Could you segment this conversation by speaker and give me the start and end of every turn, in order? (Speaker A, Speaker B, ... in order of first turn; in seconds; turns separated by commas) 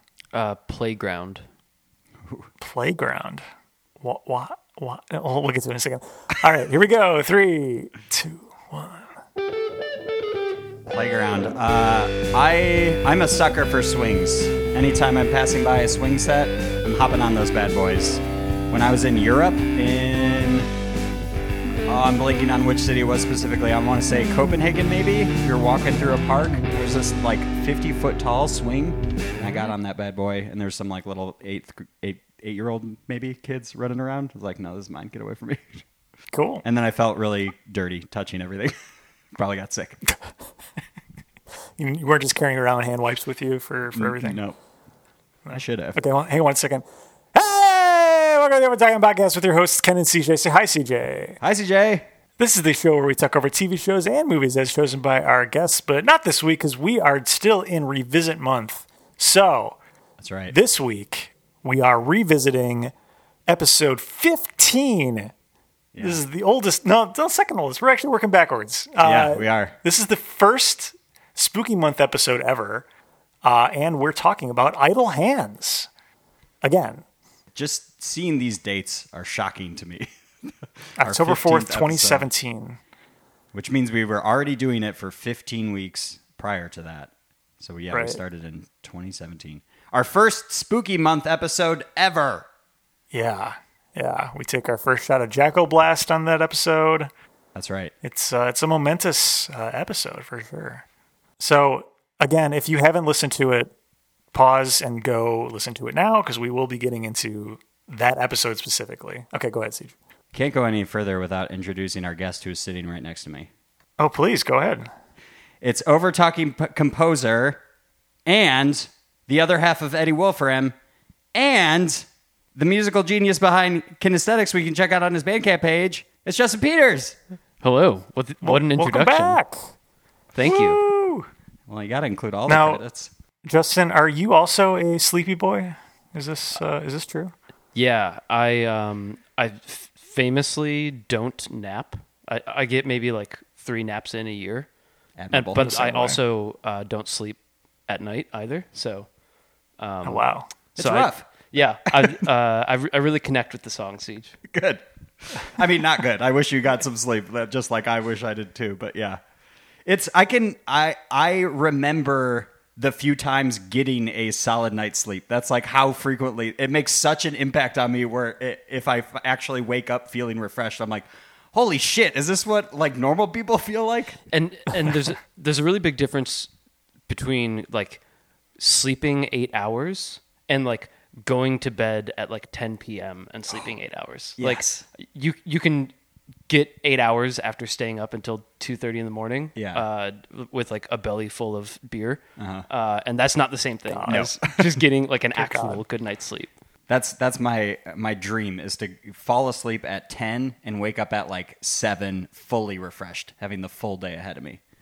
Speaker A: 0.3-1.4, Speaker B: 2.6-3.4, Speaker B: 4.0-9.1, Speaker C: 10.9-20.7, Speaker C: 21.9-35.8, Speaker B: 36.3-36.6, Speaker C: 36.6-38.8, Speaker C: 39.3-40.0, Speaker B: 41.8-44.4, Speaker C: 43.9-44.6, Speaker B: 45.5-51.4, Speaker C: 45.5-46.0, Speaker C: 51.4-52.0, Speaker B: 52.4-59.8, Speaker C: 60.2-60.5, Speaker B: 60.5-62.9, Speaker B: 63.5-65.3, Speaker C: 65.9-66.2, Speaker B: 66.0-72.8, Speaker C: 69.0-69.8, Speaker B: 73.4-75.9, Speaker B: 76.6-77.0, Speaker C: 77.5-82.3, Speaker B: 81.0-82.8, Speaker C: 83.5-92.5, Speaker B: 87.9-88.2, Speaker B: 93.1-97.1, Speaker C: 97.5-97.9, Speaker B: 98.0-100.8, Speaker B: 101.4-103.7, Speaker B: 104.3-110.0, Speaker C: 110.3-113.5, Speaker B: 114.0-114.9, Speaker C: 115.6-117.6, Speaker C: 118.2-120.7, Speaker C: 121.3-127.2, Speaker A: 127.6-129.4, Speaker B: 128.4-129.6, Speaker A: 130.3-130.8, Speaker B: 130.4-131.3, Speaker C: 131.7-133.1, Speaker B: 132.5-132.8, Speaker B: 133.4-137.3, Speaker A: 137.8-144.7, Speaker C: 145.2-145.7, Speaker A: 145.3-147.4, Speaker B: 145.6-146.2, Speaker A: 147.9-149.1, Speaker A: 149.8-154.4, Speaker B: 150.0-150.5, Speaker C: 150.8-152.2, Speaker C: 154.5-159.2, Speaker C: 159.8-174.2, Speaker A: 174.3-176.5, Speaker A: 177.1-178.0, Speaker A: 178.6-185.9, Speaker C: 184.4-184.8, Speaker A: 186.5-196.5, Speaker C: 189.6-189.8, Speaker C: 192.4-192.7, Speaker B: 193.9-194.2, Speaker C: 194.1-194.8, Speaker B: 195.3-195.8, Speaker C: 196.9-204.6